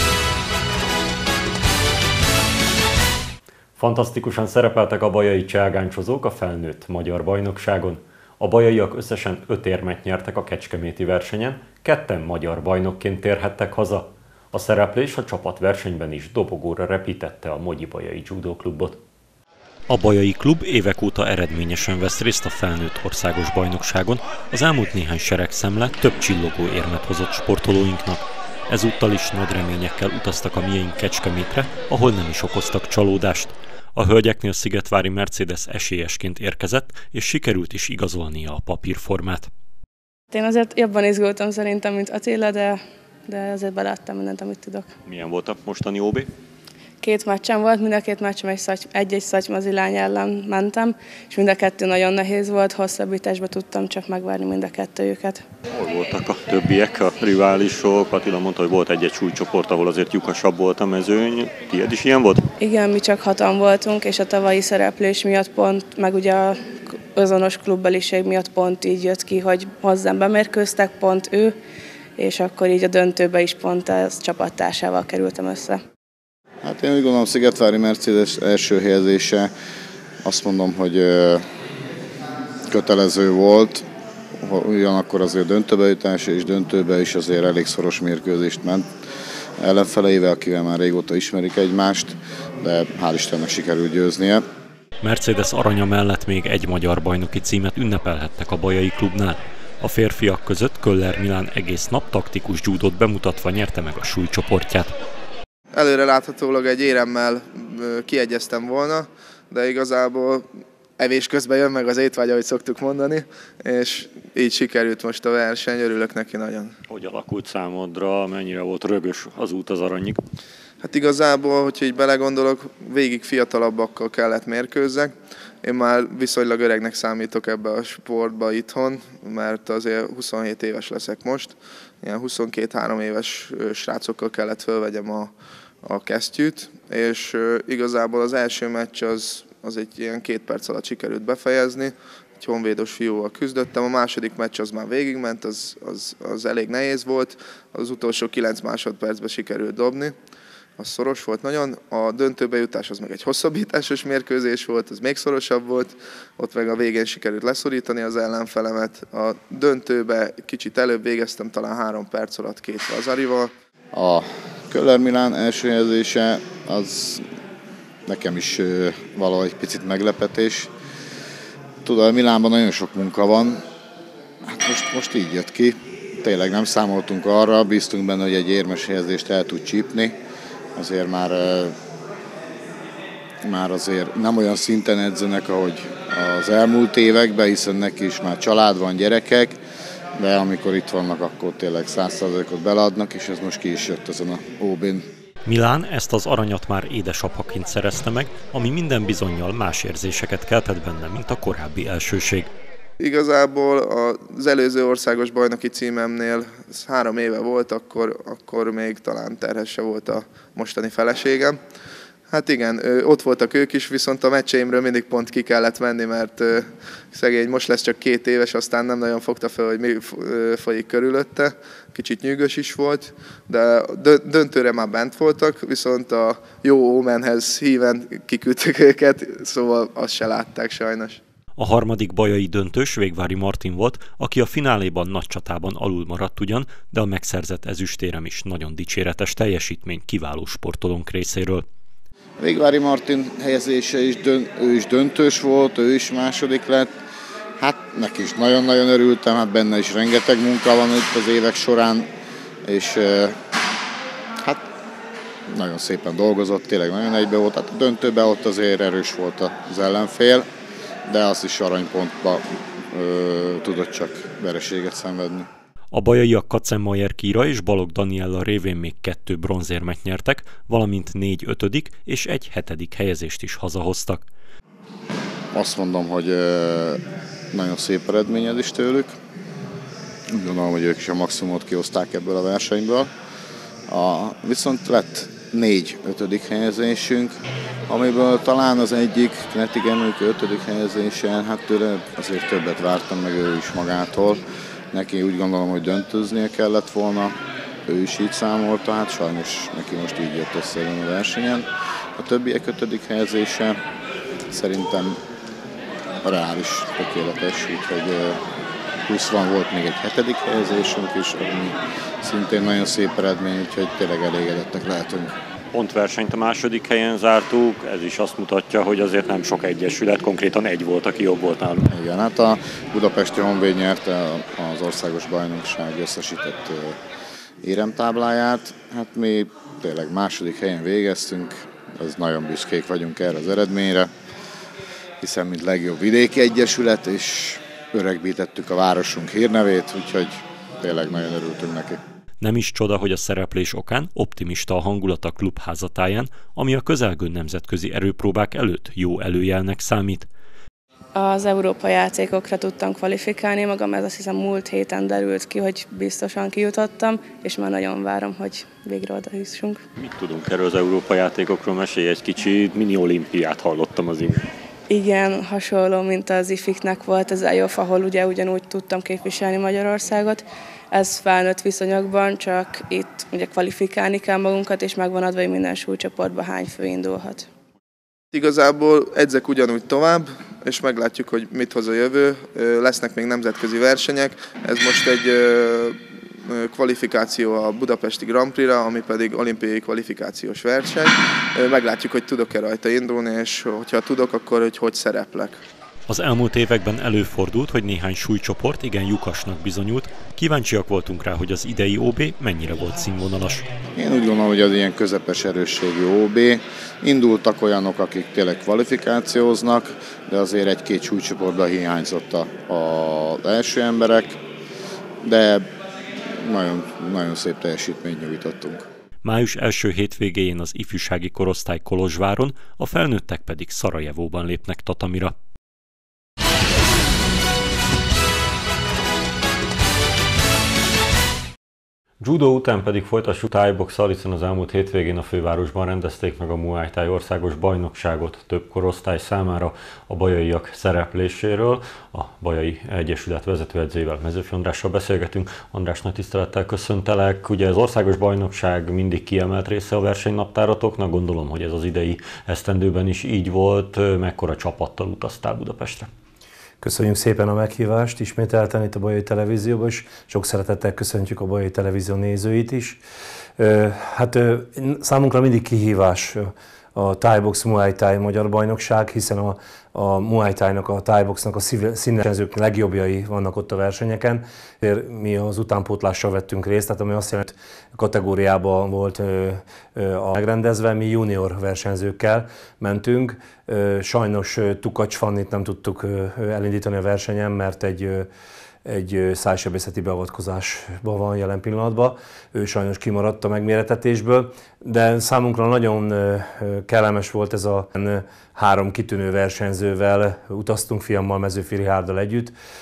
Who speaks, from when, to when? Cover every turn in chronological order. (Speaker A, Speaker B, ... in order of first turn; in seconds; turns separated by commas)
Speaker A: 3.8-19.0, Speaker A: 19.9-39.5, Speaker B: 40.3-44.9, Speaker A: 45.0-46.3, Speaker B: 47.0-55.4, Speaker A: 55.7-62.4, Speaker B: 62.6-66.5, Speaker B: 67.2-71.5, Speaker B: 72.2-75.8, Speaker C: 76.6-79.5, Speaker C: 80.2-81.4, Speaker C: 82.7-83.8, Speaker C: 84.4-88.8, Speaker C: 89.6-94.4, Speaker A: 95.0-104.9, Speaker D: 105.7-110.5, Speaker D: 111.0-116.7, Speaker A: 116.9-120.2, Speaker D: 120.8-125.1, Speaker D: 125.6-135.3, Speaker D: 135.8-150.1, Speaker D: 150.8-163.5, Speaker C: 163.9-167.2, Speaker C: 168.1-170.7, Speaker C: 171.8-173.6, Speaker C: 174.4-180.2, Speaker C: 180.8-181.7, Speaker C: 183.4-189.6, Speaker C: 190.2-195.1, Speaker A: 195.4-202.5, Speaker D: 203.0-211.6, Speaker D: 212.3-231.2, Speaker A: 231.6-241.6, Speaker C: 242.4-246.9, Speaker C: 247.6-252.1, Speaker C: 252.7-253.3, Speaker C: 254.4-254.7, Speaker C: 255.5-260.5, Speaker C: 261.1-265.5, Speaker A: 265.9-274.2, Speaker C: 275.5-277.0, Speaker C: 277.5-279.1, Speaker C: 280.3-283.1, Speaker C: 283.9-287.4, Speaker C: 287.9-297.3, Speaker C: 297.9-303.8, Speaker C: 304.5-305.2, Speaker C: 306.2-308.4, Speaker C: 309.1-315.3, Speaker A: 315.7-321.9, Speaker C: 321.9-326.9, Speaker C: 327.6-334.1, Speaker C: 335.2-342.0, Speaker A: 342.4-350.3, Speaker B: 351.1-359.8, Speaker A: 360.0-364.4, Speaker B: 364.9-377.4, Speaker D: 378.3-395.6, Speaker A: 396.1-403.7, Speaker C: 403.9-414.4, Speaker C: 415.2-415.6, Speaker C: 416.4-418.9, Speaker A: 419.2-425.3, Speaker A: 432.2-456.1, Speaker E: 456.8-463.0, Speaker E: 463.6-488.3, Speaker E: 488.8-502.5